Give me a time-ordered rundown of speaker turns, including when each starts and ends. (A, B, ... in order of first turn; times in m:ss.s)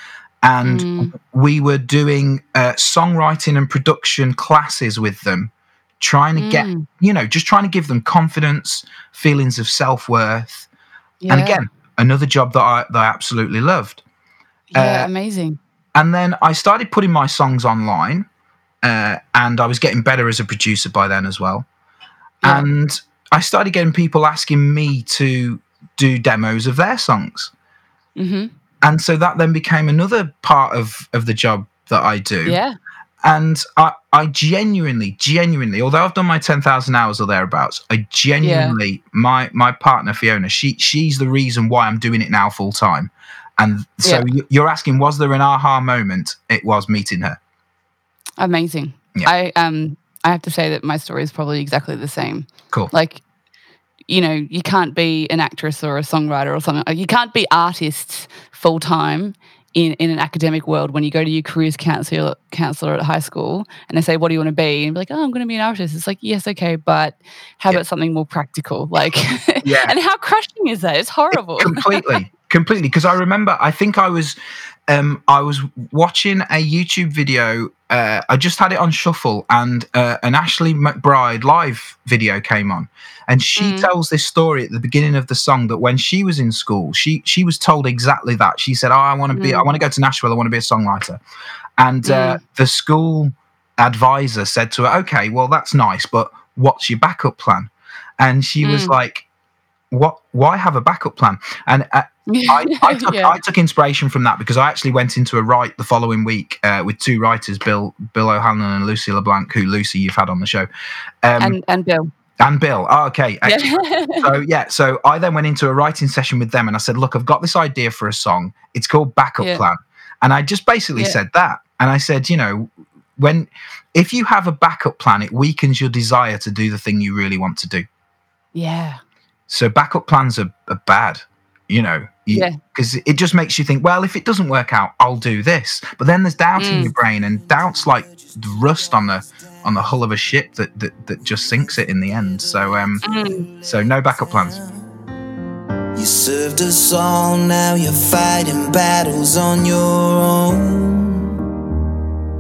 0:00.4-0:10.7 A
0:00.6-0:01.1 B
0:06.4-0:06.9 B
0:11.2-0:11.6 B
0:11.3-0:14.0 A
0:14.7-0:15.6 B
0:14.8-0:15.1 A
0:16.0-0:18.3 A
0:18.8-0:21.7 A
0:22.4-0:27.5 A
0:28.2-0:28.5 B
0:28.8-0:32.6 A
0:32.5-0:32.7 B
0:33.2-0:47.4 A
0:38.4-0:38.8 B
0:44.0-0:44.3 B
0:48.4-0:53.2 B
0:54.1-1:12.2 B
1:09.6-1:10.0 A
1:11.3-1:14.4 A
1:14.9-1:31.2 A
1:23.6-1:23.9 B
1:29.3-1:29.7 B
1:31.8-1:39.3 A
1:32.0-1:32.4 B
1:38.6-1:38.9 B
1:39.9-1:50.7 A
1:42.3-1:43.4 B
1:51.2-1:51.6 A
1:51.4-1:52.1 B
1:52.4-2:07.9 A
1:53.4-1:54.3 B
2:08.6-2:09.0 B
2:09.5-2:23.0 A
2:12.3-2:12.6 B
2:16.6-2:16.9 B
2:23.0-2:23.5 B
2:23.6-2:24.6 A
2:26.0-2:31.3 C